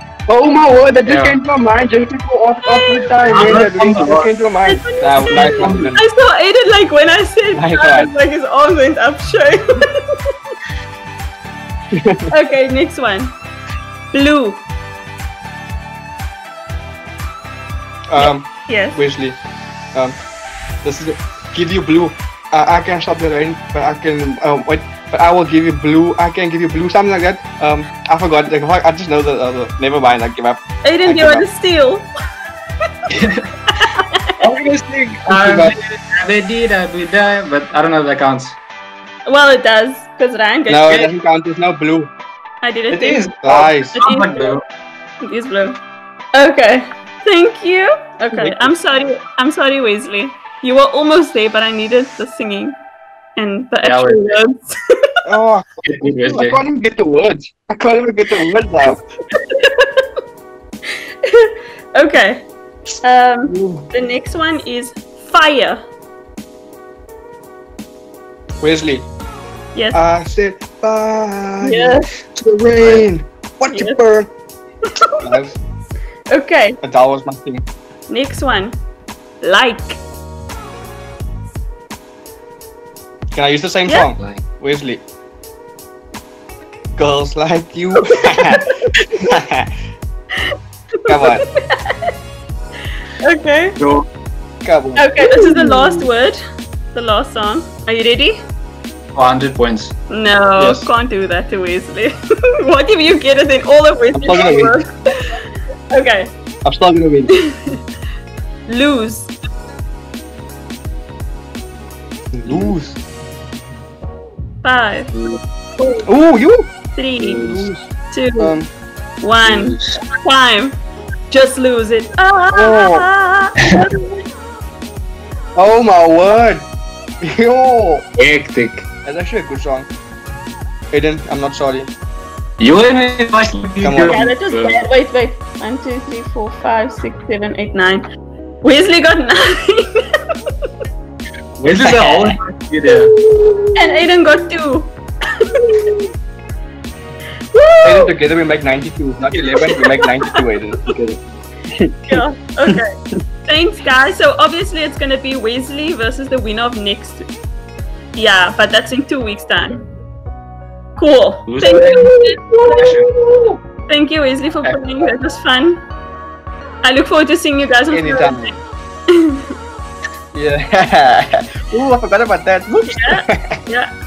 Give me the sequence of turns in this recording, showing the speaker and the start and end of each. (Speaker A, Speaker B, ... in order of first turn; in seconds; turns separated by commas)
Speaker A: 0.3-6.0, Speaker B: 1.1-1.4, Speaker C: 2.6-3.3, Speaker B: 3.3-4.3, Speaker C: 4.7-10.3, Speaker B: 5.2-5.9, Speaker A: 7.5-8.1, Speaker A: 11.9-12.3, Speaker C: 12.3-13.3, Speaker C: 14.1-14.6, Speaker A: 18.1-19.4, Speaker C: 18.2-19.0, Speaker A: 20.8-31.5, Speaker C: 30.8-32.1, Speaker B: 33.1-33.5, Speaker C: 33.7-34.4, Speaker B: 34.4-38.6, Speaker A: 35.3-35.8, Speaker C: 39.3-41.1, Speaker A: 40.7-42.1, Speaker C: 42.6-43.3, Speaker B: 42.9-44.6, Speaker A: 43.4-44.0, Speaker C: 44.0-44.5, Speaker C: 45.2-45.8, Speaker C: 46.3-52.8, Speaker A: 48.3-48.8, Speaker C: 53.4-55.2, Speaker B: 53.8-54.4, Speaker A: 55.3-59.0, Speaker B: 55.9-56.6, Speaker C: 59.3-60.1, Speaker C: 61.2-62.5, Speaker C: 63.0-65.8, Speaker A: 63.5-63.9, Speaker A: 68.6-69.1, Speaker C: 69.8-70.0, Speaker A: 69.9-74.3, Speaker C: 71.6-72.1, Speaker C: 73.7-74.0, Speaker C: 74.9-75.2, Speaker A: 75.2-75.6, Speaker C: 76.3-76.8, Speaker A: 76.8-77.6, Speaker C: 78.1-78.8, Speaker C: 79.4-80.0, Speaker A: 83.3-85.0, Speaker A: 87.0-89.7, Speaker C: 88.3-88.9, Speaker C: 90.4-92.1, Speaker A: 91.1-91.5, Speaker C: 93.2-93.8, Speaker B: 93.8-94.1, Speaker A: 94.6-96.1, Speaker C: 95.0-96.4, Speaker C: 96.9-98.4, Speaker B: 99.2-99.9, Speaker C: 100.1-106.3, Speaker A: 100.6-100.9, Speaker A: 104.1-104.8, Speaker A: 106.6-107.5, Speaker C: 107.3-107.8, Speaker C: 108.7-109.3, Speaker A: 112.3-113.0, Speaker B: 112.5-112.8, Speaker C: 114.6-115.1, Speaker A: 116.0-116.7, Speaker C: 117.0-117.5, Speaker B: 117.2-117.7, Speaker A: 117.3-117.9, Speaker C: 118.1-118.6, Speaker A: 118.4-118.7, Speaker C: 119.2-120.8, Speaker B: 119.4-120.0, Speaker C: 121.3-124.2, Speaker A: 122.5-123.1, Speaker A: 125.6-126.7, Speaker A: 127.2-128.1, Speaker B: 128.2-128.9, Speaker A: 129.1-129.9, Speaker A: 130.9-131.9, Speaker B: 132.6-134.8, Speaker A: 133.8-134.2, Speaker C: 134.1-138.0, Speaker C: 138.6-140.1, Speaker B: 141.6-143.1, Speaker A: 141.8-142.3, Speaker A: 143.1-144.0, Speaker C: 143.8-145.9, Speaker C: 147.5-148.2, Speaker A: 147.8-151.2, Speaker C: 149.6-150.4, Speaker A: 151.7-152.8, Speaker C: 152.1-157.3, Speaker C: 158.2-159.8, Speaker C: 161.0-162.4, Speaker B: 161.5-163.1, Speaker A: 161.7-163.6, Speaker C: 163.9-165.8, Speaker C: 166.8-168.5, Speaker A: 167.9-168.6, Speaker C: 169.1-169.5, Speaker A: 170.3-173.6, Speaker C: 172.7-173.9